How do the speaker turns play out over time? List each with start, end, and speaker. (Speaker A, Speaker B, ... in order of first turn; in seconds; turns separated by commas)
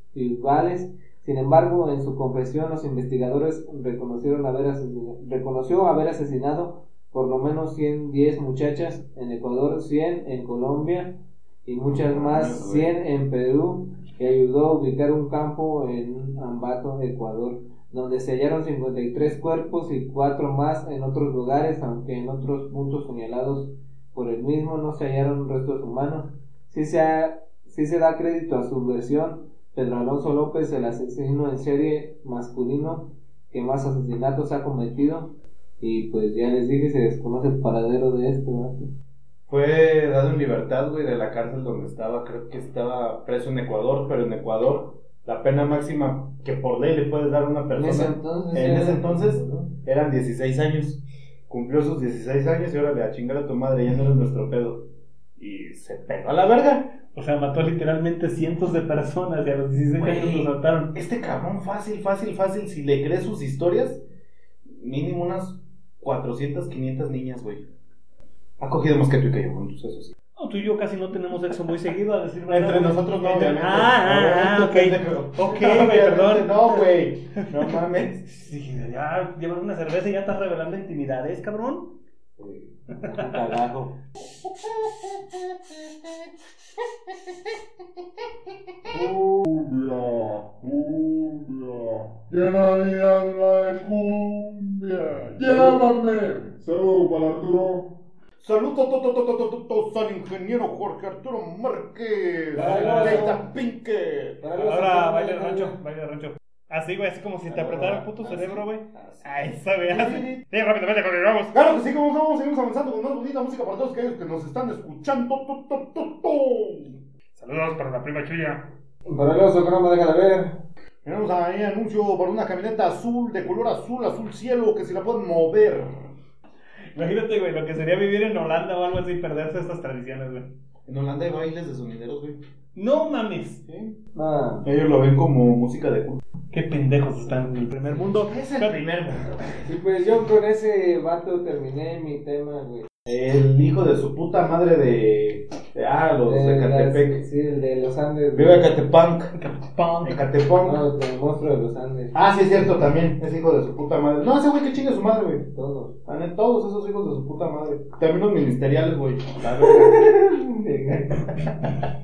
Speaker A: 0.1-38.9, Speaker B: 11.8-12.9, Speaker B: 39.5-54.9, Speaker A: 47.7-49.7, Speaker B: 55.4-56.9, Speaker C: 57.1-60.9, Speaker B: 60.0-64.0, Speaker B: 64.7-67.7, Speaker B: 68.6-70.1, Speaker C: 70.3-82.0, Speaker B: 72.5-78.4, Speaker A: 82.4-83.6, Speaker C: 83.0-83.4, Speaker B: 83.0-86.3, Speaker B: 87.1-87.5, Speaker D: 88.9-98.0, Speaker A: 95.5-95.8, Speaker B: 98.4-104.4, Speaker A: 102.5-103.5, Speaker C: 102.5-103.3, Speaker A: 104.4-105.8, Speaker C: 104.5-111.5, Speaker B: 107.5-109.2, Speaker B: 109.8-110.4, Speaker B: 111.5-117.0, Speaker C: 117.3-118.7, Speaker A: 119.1-120.6, Speaker B: 121.0-126.1, Speaker C: 126.9-130.5, Speaker B: 130.8-132.4, Speaker C: 132.7-133.6, Speaker B: 133.7-134.0, Speaker A: 134.1-134.7, Speaker B: 134.6-136.2, Speaker C: 136.5-138.9, Speaker B: 138.2-139.7, Speaker A: 139.6-142.9, Speaker B: 143.1-147.2, Speaker A: 146.2-148.7, Speaker B: 148.3-149.3, Speaker C: 149.3-150.2, Speaker B: 150.0-150.8, Speaker A: 150.6-152.1, Speaker B: 152.1-155.4, Speaker A: 155.5-155.9, Speaker B: 156.1-160.1, Speaker A: 159.6-161.4, Speaker B: 161.4-161.7